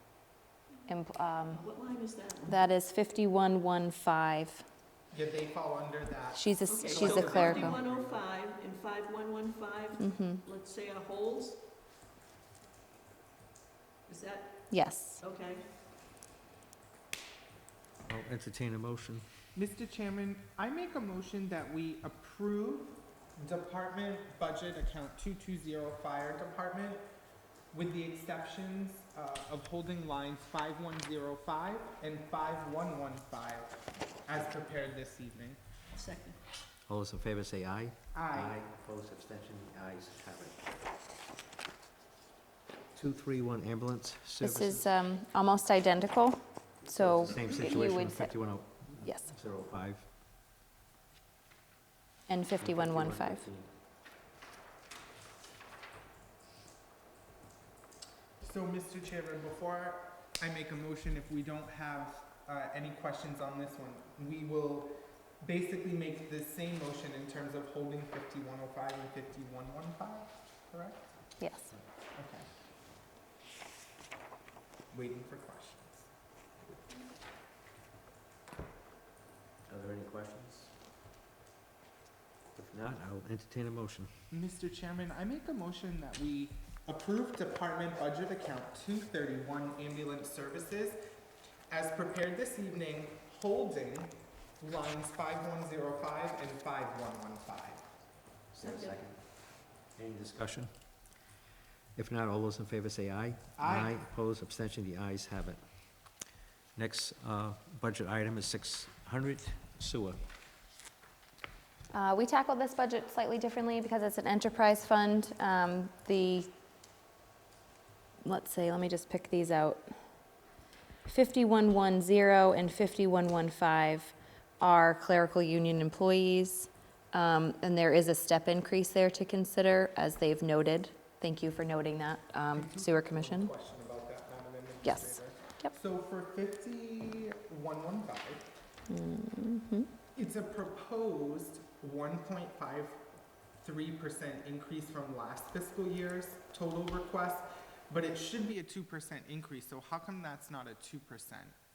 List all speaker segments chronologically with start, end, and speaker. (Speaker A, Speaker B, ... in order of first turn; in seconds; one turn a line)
Speaker A: 0.9-1.6
Speaker B: 1.5-2.6
Speaker A: 2.4-4.6
Speaker C: 5.1-8.2
Speaker A: 6.3-7.8
Speaker B: 6.7-11.6
Speaker A: 10.0-10.4
Speaker B: 14.1-15.7
Speaker A: 14.7-15.2
Speaker D: 18.0-19.2
Speaker C: 19.5-27.0
Speaker C: 27.7-35.6
Speaker B: 35.9-36.4
Speaker D: 36.9-40.6
Speaker C: 38.1-38.6
Speaker D: 42.9-44.9
Speaker A: 44.4-48.4
Speaker D: 47.0-50.1
Speaker A: 49.0-49.3
Speaker A: 52.3-53.5
Speaker D: 52.6-53.7
Speaker C: 58.4-72.5
Speaker A: 71.4-71.7
Speaker C: 74.9-76.0
Speaker D: 79.7-80.7
Speaker D: 82.5-84.2
Speaker C: 84.3-91.0
Speaker C: 91.7-97.8
Speaker D: 98.5-100.7
Speaker B: 98.6-99.0
Speaker D: 101.9-105.6
Speaker C: 103.5-104.0
Speaker D: 106.7-110.2
Speaker A: 111.9-116.5
Speaker A: 118.2-120.0
Speaker A: 121.0-133.5
Speaker C: 132.5-138.4
Speaker A: 134.8-135.7
Speaker A: 138.9-139.9
Speaker C: 140.1-143.0
Speaker C: 143.6-151.5